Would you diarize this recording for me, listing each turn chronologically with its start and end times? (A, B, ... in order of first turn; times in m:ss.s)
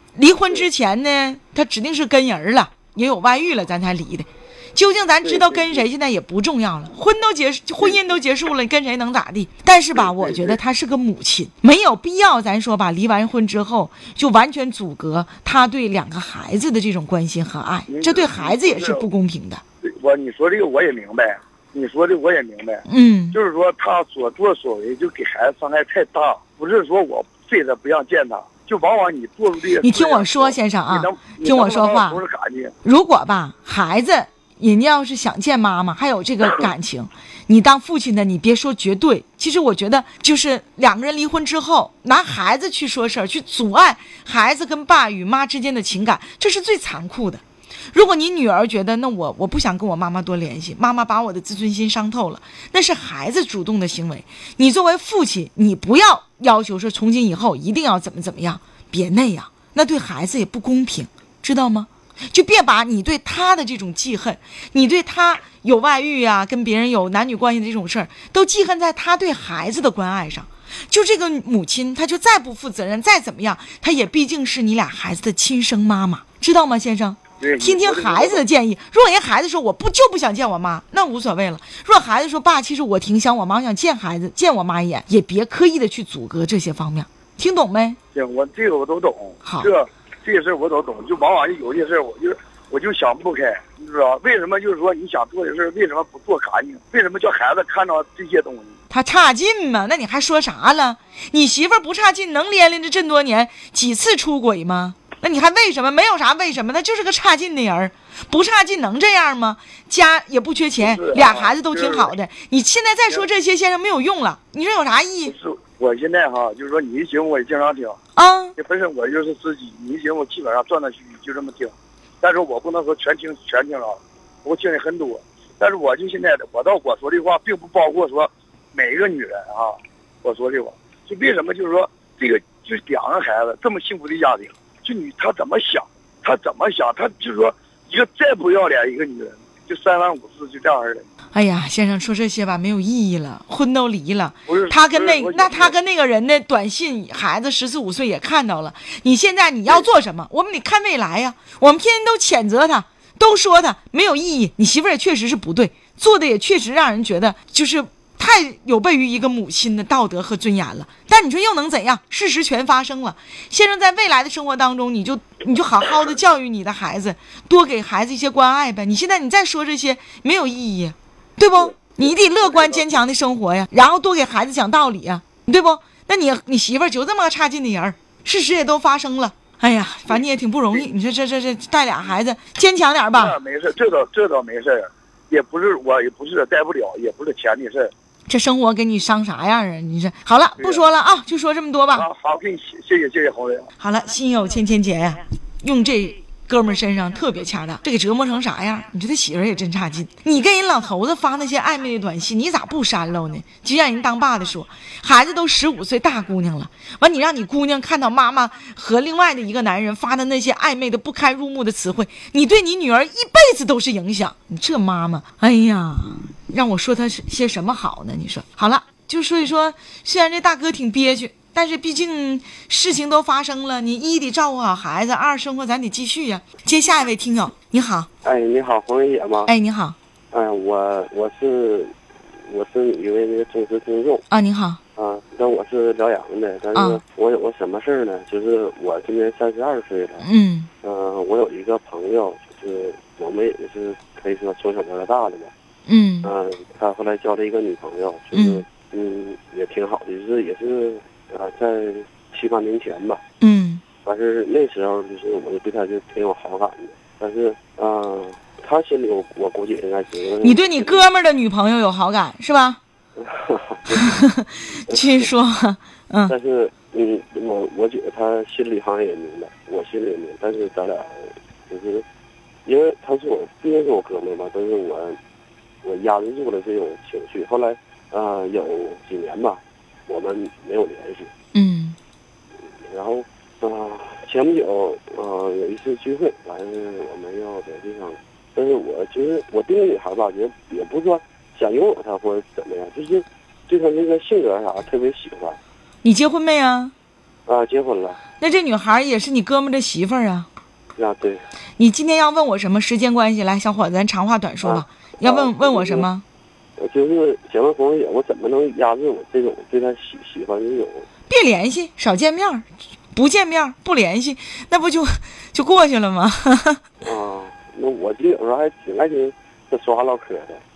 0:00.2-0:19.6 A
0:05.2-0:05.9 B
0:07.8-0:08.1 B
0:09.9-0:10.6 B
0:17.9-0:19.1 B
0:19.8-0:32.8 B
0:22.9-0:23.4 A
0:29.8-0:32.2 A
0:32.8-1:28.0 A
1:17.4-1:18.4 B
1:28.1-1:38.8 B
1:29.4-1:29.7 A
1:38.9-1:55.3 A
1:50.8-1:52.1 B
1:55.2-1:58.0 B
1:58.2-1:58.6 A
1:58.6-2:21.1 B
2:21.3-3:03.4 A
2:24.5-2:25.8 B
3:00.1-3:00.9 B
3:03.2-3:07.9 B
3:08.3-3:12.1 A
3:10.6-3:10.9 B
3:11.9-3:13.7 B
3:13.8-3:48.1 A
3:48.2-3:49.5 C
3:49.5-3:50.0 A
3:50.3-3:54.2 C
3:54.3-3:54.8 A
3:55.0-4:00.3 C
3:56.7-3:57.0 A
4:00.2-4:00.7 A
4:00.8-4:05.5 C
4:05.9-4:06.3 A
4:06.2-4:13.2 C
4:08.3-4:08.6 A
4:13.4-4:13.8 A
4:14.0-4:21.1 C
4:20.4-4:22.8 A
4:23.2-4:25.3 C
4:23.9-4:26.4 A
4:26.3-4:32.0 C
4:32.6-4:35.2 C
4:35.8-4:41.3 C
4:41.5-4:42.0 A
4:42.8-4:55.6 C
4:56.0-4:56.9 A
4:57.5-4:58.2 C
4:58.4-5:00.5 A
5:01.0-5:01.4 C
5:01.8-5:06.2 A
5:04.6-5:06.1 C
5:06.8-5:11.1 C
5:11.3-5:16.8 A
5:17.0-5:20.6 C